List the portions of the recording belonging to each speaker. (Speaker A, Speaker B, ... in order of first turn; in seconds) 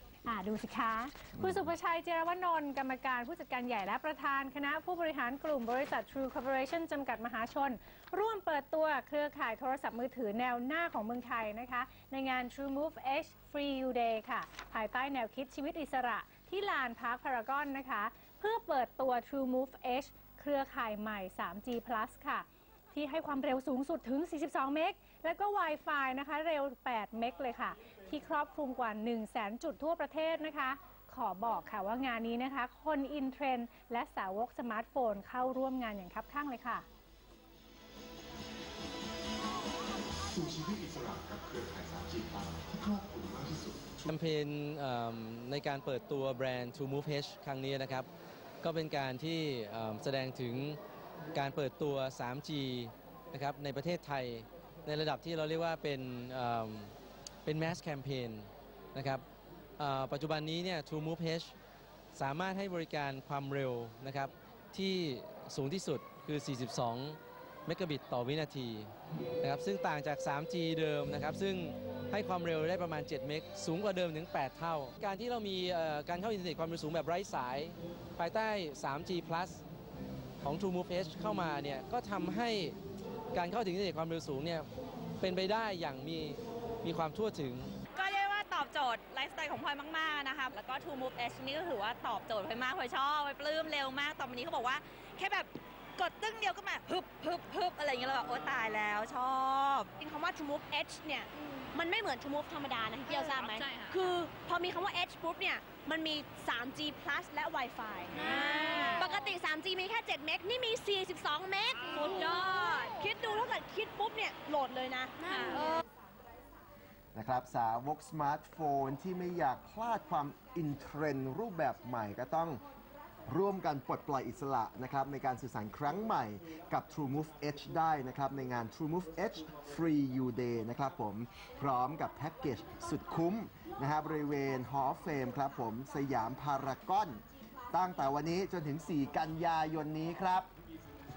Speaker A: 0.2-36.9
Speaker B: 40.3-44.1
Speaker C: 44.0-48.1, 48.6-50.8, 51.3-56.9, 57.4-59.2, 59.8-61.5, 62.1-79.6, 80.4-82.8, 83.3-84.7, 85.2-87.7
Speaker D: 87.9-99.9, 103.1-104.0, 108.2-109.1, 111.9-113.0, 115.3-115.7
Speaker E: 100.0-115.8
Speaker F: 117.1-122.6, 123.3-137.2, 137.7-140.5